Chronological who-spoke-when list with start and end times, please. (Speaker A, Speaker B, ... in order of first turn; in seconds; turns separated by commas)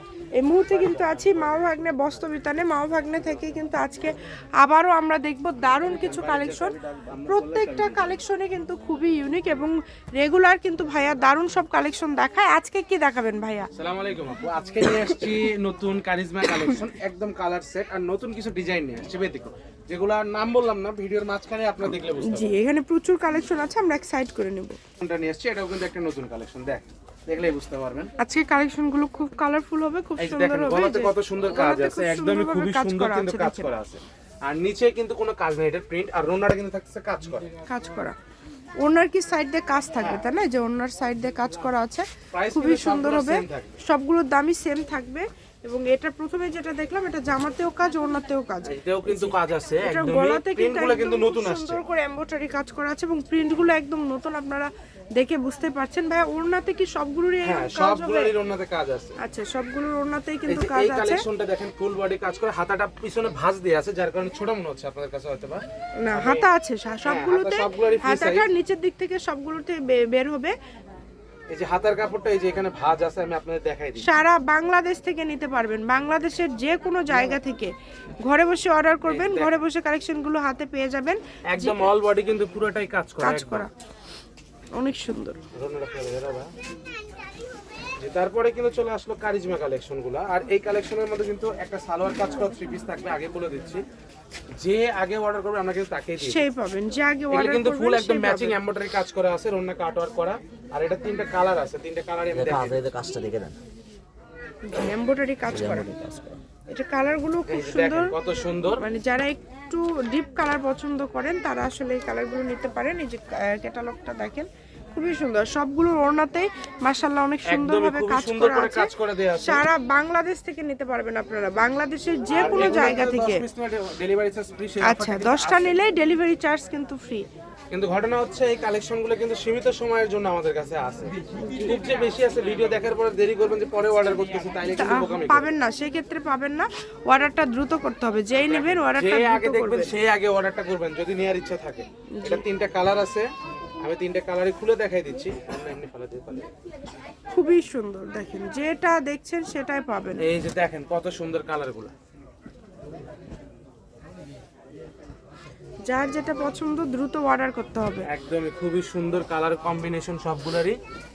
Speaker A: 0.4-6.8, Speaker B: 0.7-1.6, Speaker B: 5.8-8.2, Speaker A: 7.3-13.7, Speaker B: 13.7-22.5, Speaker A: 21.9-24.8, Speaker B: 25.0-28.1, Speaker A: 28.2-33.7, Speaker B: 30.2-37.5, Speaker A: 37.7-38.2, Speaker A: 38.8-58.3, Speaker B: 42.3-43.8, Speaker B: 48.6-51.8, Speaker B: 57.4-59.2, Speaker A: 59.2-61.2, Speaker B: 60.5-66.5, Speaker A: 66.0-70.5, Speaker B: 67.0-68.5, Speaker B: 71.5-74.1, Speaker A: 74.0-77.7, Speaker A: 78.2-81.9, Speaker B: 79.0-79.5, Speaker B: 81.5-83.7, Speaker A: 83.2-83.7, Speaker A: 84.8-85.4, Speaker B: 85.5-86.5, Speaker B: 88.0-93.8, Speaker B: 94.6-96.4, Speaker A: 96.2-98.6, Speaker B: 97.3-102.9, Speaker C: 102.3-103.6, Speaker A: 104.7-105.9, Speaker C: 105.5-106.4, Speaker A: 106.7-108.2, Speaker B: 107.5-108.8, Speaker A: 108.8-118.9, Speaker B: 117.5-119.7, Speaker A: 119.4-123.5, Speaker B: 122.3-125.8, Speaker A: 124.8-127.3, Speaker B: 127.7-135.5, Speaker A: 134.6-139.9, Speaker B: 138.4-143.3, Speaker A: 142.2-142.4, Speaker B: 143.8-146.5, Speaker A: 147.3-150.2, Speaker B: 150.2-151.9, Speaker A: 155.8-158.1, Speaker B: 158.1-160.8